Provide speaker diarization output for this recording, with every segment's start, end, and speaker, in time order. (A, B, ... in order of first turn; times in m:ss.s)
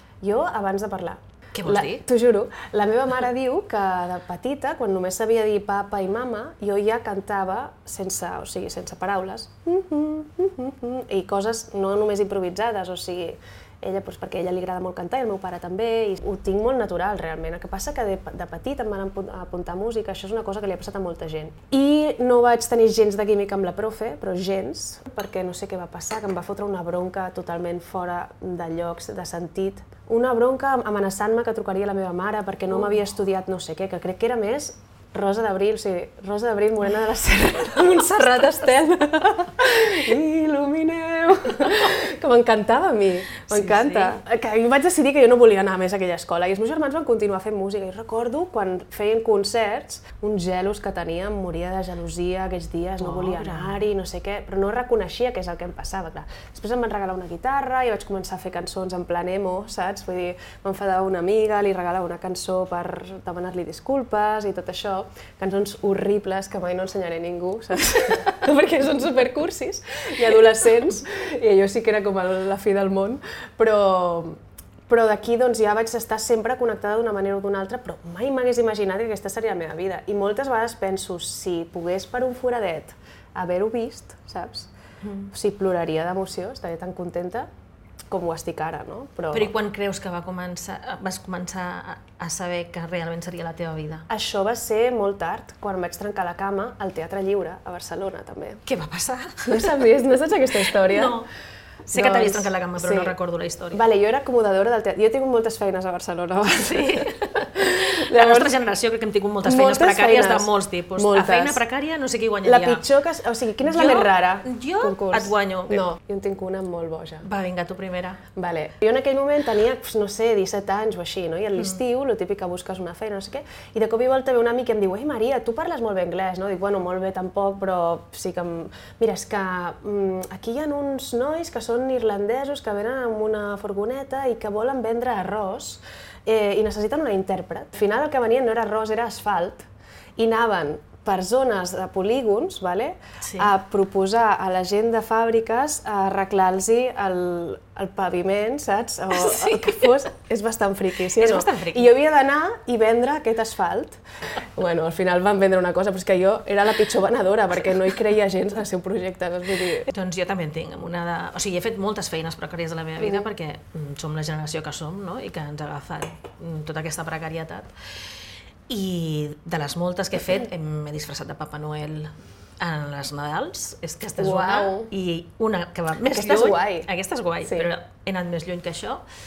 0:00.2-1:24.7 A
0:01.5-0:02.0 B
0:38.0-0:38.7 B
0:43.5-0:44.2 B
0:53.0-0:53.8 B
1:25.0-1:25.3 B
1:25.3-1:27.5 A
1:28.1-1:29.5 A
1:29.3-1:34.0 B
1:34.1-1:38.6 A
1:38.6-1:39.8 B
1:39.4-1:41.2 A
1:40.8-1:41.3 B
1:41.9-1:43.8 B
1:41.9-1:43.1 A
1:43.7-1:48.5 A
1:46.6-1:52.8 B
1:49.4-1:51.6 A
1:52.4-1:57.2 A
1:53.6-1:55.8 B
1:57.2-1:58.2 B
1:58.3-2:34.0 A
2:23.2-2:23.5 B
2:29.1-2:29.9 B
2:31.1-2:31.9 B
2:34.6-2:39.9 A
2:39.9-2:47.7 B
2:48.7-2:59.0 B
2:54.2-2:54.9 A
2:56.0-2:56.9 A